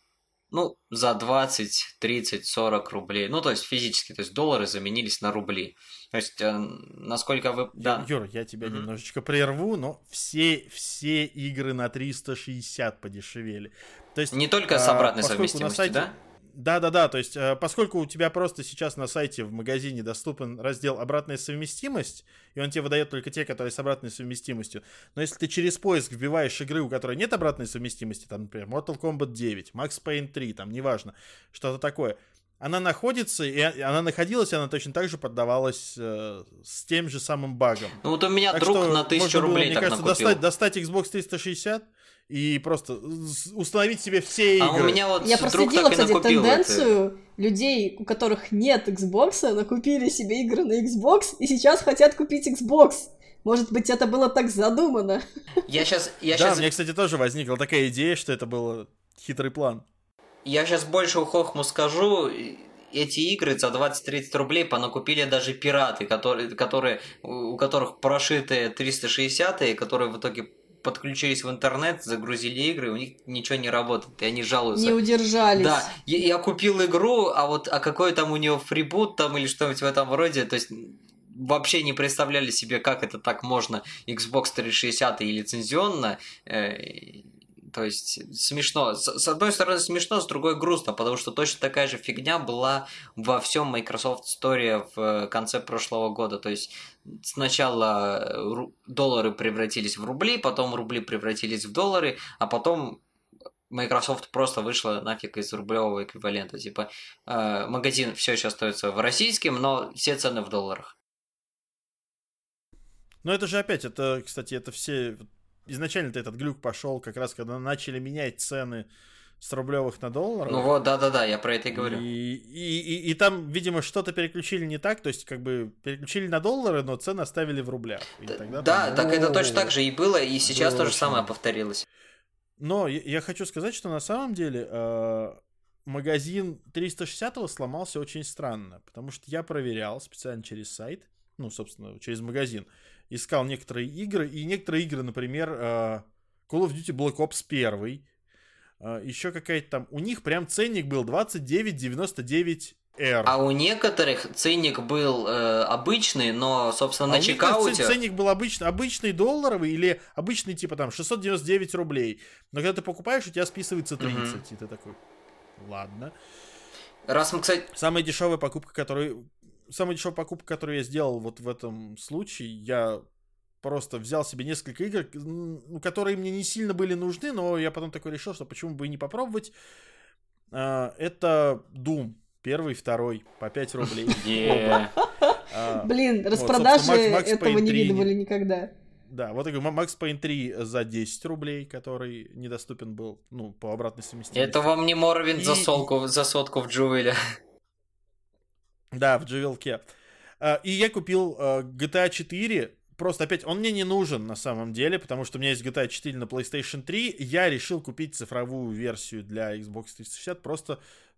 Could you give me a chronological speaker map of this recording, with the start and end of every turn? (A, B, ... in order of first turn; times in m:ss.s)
0:00.5-0:08.0 A
0:07.8-0:38.0 B
0:14.3-0:16.1 A
0:38.0-0:40.4 A
0:38.5-0:45.0 B
0:44.6-0:46.9 A
0:45.2-0:55.2 C
0:55.7-0:56.7 A
0:56.3-0:59.8 B
1:00.4-1:15.0 A
1:14.7-1:15.9 C
1:15.6-1:43.0 A
1:43.7-1:50.9 A
1:53.2-1:58.9 B
1:59.4-2:00.7 B
2:00.5-2:02.0 A
2:01.7-2:09.7 B
2:08.3-2:11.8 A
2:10.4-2:11.3 B
2:12.6-2:28.0 B
2:28.8-2:33.4 B
2:33.2-2:37.9 A
2:37.1-2:45.0 B
2:44.0-2:44.4 A
2:45.6-2:46.1 B
2:47.1-2:47.7 A
2:47.7-2:53.0 B
2:53.6-2:59.5 B
3:00.5-3:04.9 B
3:04.0-3:04.9 A
3:05.2-3:08.7 C
3:05.5-3:08.1 B
3:09.1-3:14.6 B
3:14.3-3:17.2 A
3:15.3-3:15.9 B
3:18.9-3:19.8 B
3:20.4-3:30.8 B